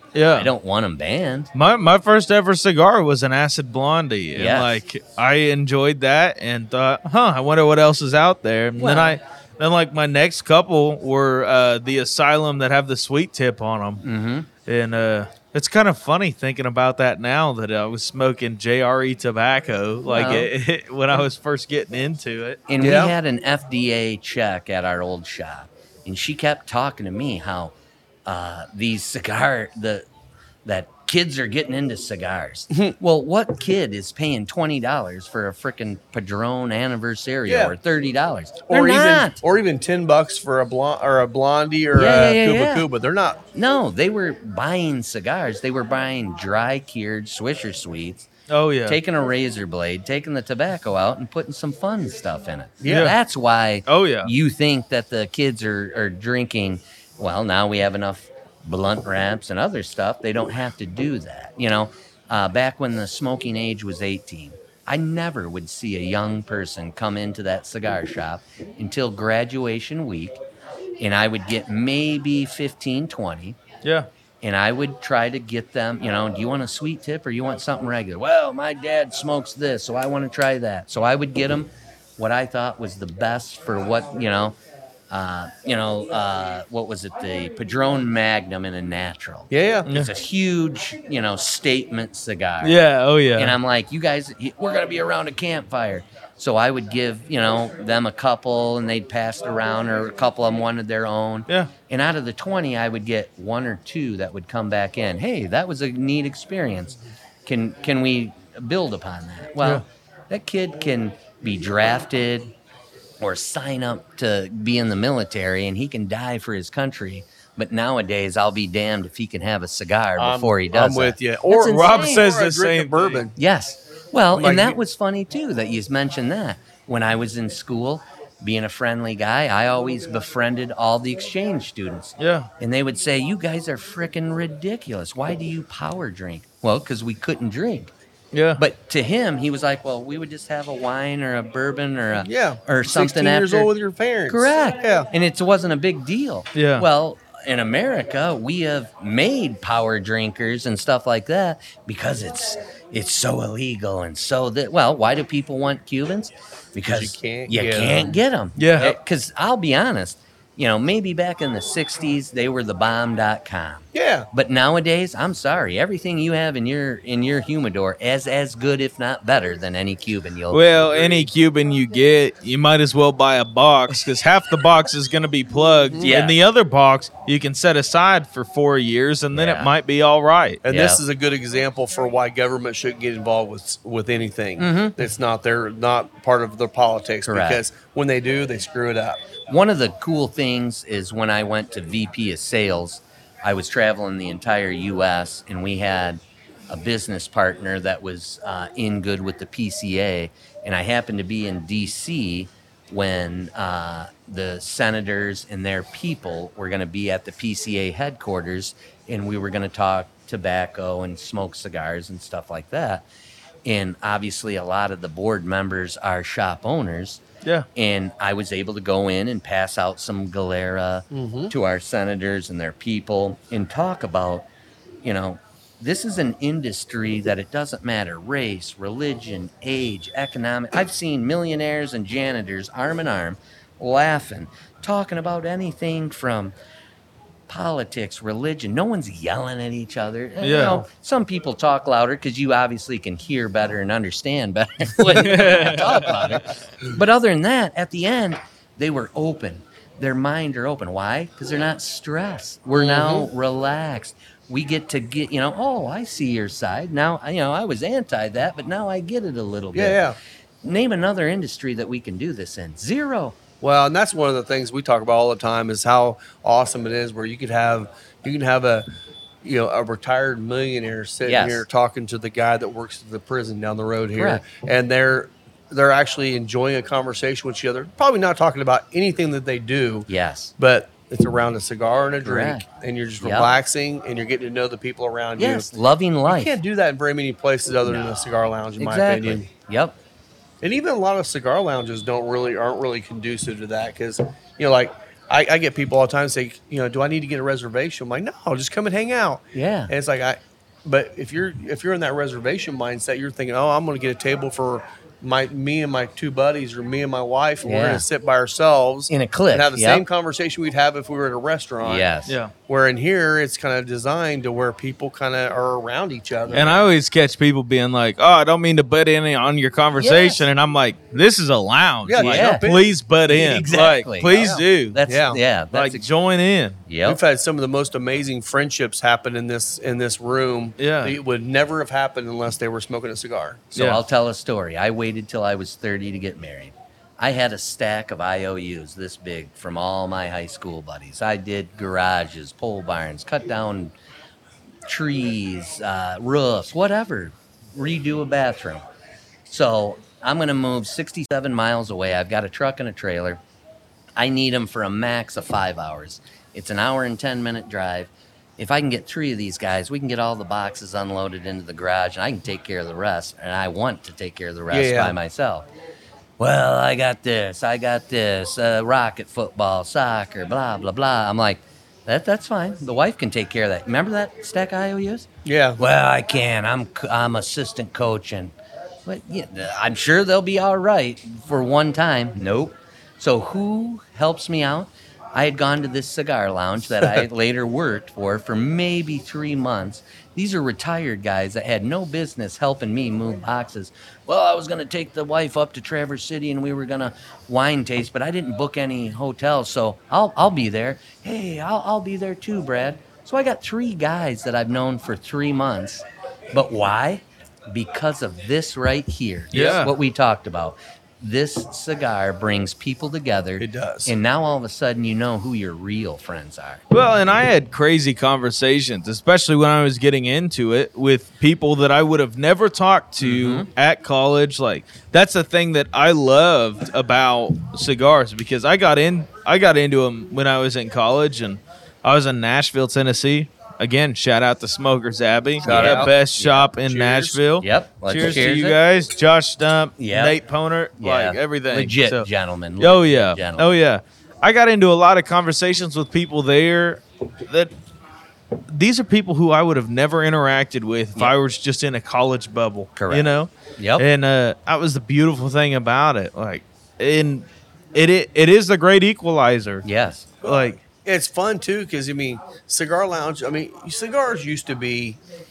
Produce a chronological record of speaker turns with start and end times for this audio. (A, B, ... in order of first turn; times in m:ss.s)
0:00.1-0:00.5 A
0:00.3-0:01.5 B
0:01.5-0:14.0 A
0:04.3-0:04.8 B
0:08.8-0:09.2 B
0:14.0-0:14.5 B
0:14.6-0:22.6 A
0:20.1-0:20.5 B
0:22.7-0:27.7 B
0:22.8-0:23.1 C
0:28.2-0:30.0 B
0:30.6-0:39.4 B
0:37.5-0:37.8 C
0:38.7-0:43.4 C
0:41.9-0:42.9 B
0:43.5-0:48.3 B
0:48.5-0:49.0 A
0:48.8-1:10.4 B
0:52.8-0:53.1 C
0:52.9-0:53.1 A
0:53.9-0:54.3 A
1:11.0-1:13.6 B
1:13.8-1:14.1 A
1:14.4-1:24.6 B
1:25.1-1:32.8 B
1:29.5-1:29.9 C
1:32.6-1:33.6 A
1:33.3-1:52.5 B
1:53.2-2:02.3 B
2:00.2-2:03.4 C
2:01.6-2:03.2 A
2:03.4-2:17.9 B
2:04.3-2:04.8 C
2:12.2-2:12.5 A
2:18.3-2:18.6 A
2:18.6-2:23.7 B
2:22.2-2:25.1 C
2:24.3-2:51.0 B
2:26.5-2:26.8 A
2:36.9-2:38.2 C
2:38.6-2:38.9 A
2:43.9-2:44.3 C
2:50.5-3:00.6 A
2:51.0-2:51.2 C
2:56.0-2:56.4 B
2:59.3-2:59.7 B
3:00.6-3:09.2 C
3:00.7-3:01.0 B
3:04.6-3:05.0 B
3:07.3-3:07.6 B
3:09.5-3:33.1 B
3:33.6-3:37.2 B
3:37.7-3:44.5 B
3:41.1-3:41.5 C
3:45.0-3:56.5 B
3:57.5-4:20.0 B
4:00.4-4:00.8 A
4:05.1-4:06.6 A
4:12.7-4:13.3 C
4:19.7-4:20.2 C
4:20.6-4:23.4 B
4:23.6-4:28.8 C
4:29.4-4:40.1 C
4:31.2-4:31.6 B
4:34.2-4:34.4 B
4:40.1-4:40.5 B
4:40.6-4:45.7 C
4:42.2-4:42.6 B
4:43.2-4:43.5 B
4:45.4-4:46.5 B
4:46.3-4:49.5 C
4:47.8-4:48.1 B
4:48.8-4:50.0 B
4:50.6-5:12.0 C
4:59.5-4:59.9 B
5:07.6-5:08.0 B
5:09.1-5:10.0 B
5:11.8-5:12.4 B
5:12.3-5:12.5 A
5:12.7-5:16.8 C
5:16.5-5:25.0 A
5:20.0-5:20.4 B
5:22.1-5:22.9 C
5:22.2-5:22.6 B
5:23.3-5:24.4 B
5:24.3-5:25.4 C
5:24.9-5:26.1 B
5:25.7-5:26.8 A
5:26.8-5:27.2 B
5:27.0-5:33.7 C
5:30.8-5:31.2 A
5:33.7-5:43.9 B
5:33.7-5:34.0 A
5:44.8-5:48.8 B
5:49.4-5:53.4 B
5:54.2-6:05.7 B
6:04.7-6:05.2 C
6:06.4-6:15.3 B
6:15.4-6:15.8 C
6:15.8-6:18.5 B
6:19.0-6:56.8 B
6:49.5-6:49.9 A
6:53.6-6:54.1 C
6:56.9-7:22.3 A
7:03.2-7:03.7 B
7:15.6-7:16.7 B
7:15.6-7:17.4 C
7:17.6-7:18.8 B
7:20.0-7:20.4 B
7:21.0-7:23.7 B
7:22.8-7:27.7 A
7:28.7-7:39.8 A
7:33.0-7:34.0 B
7:39.8-7:40.4 B
7:40.4-7:40.8 A
7:40.4-7:45.2 C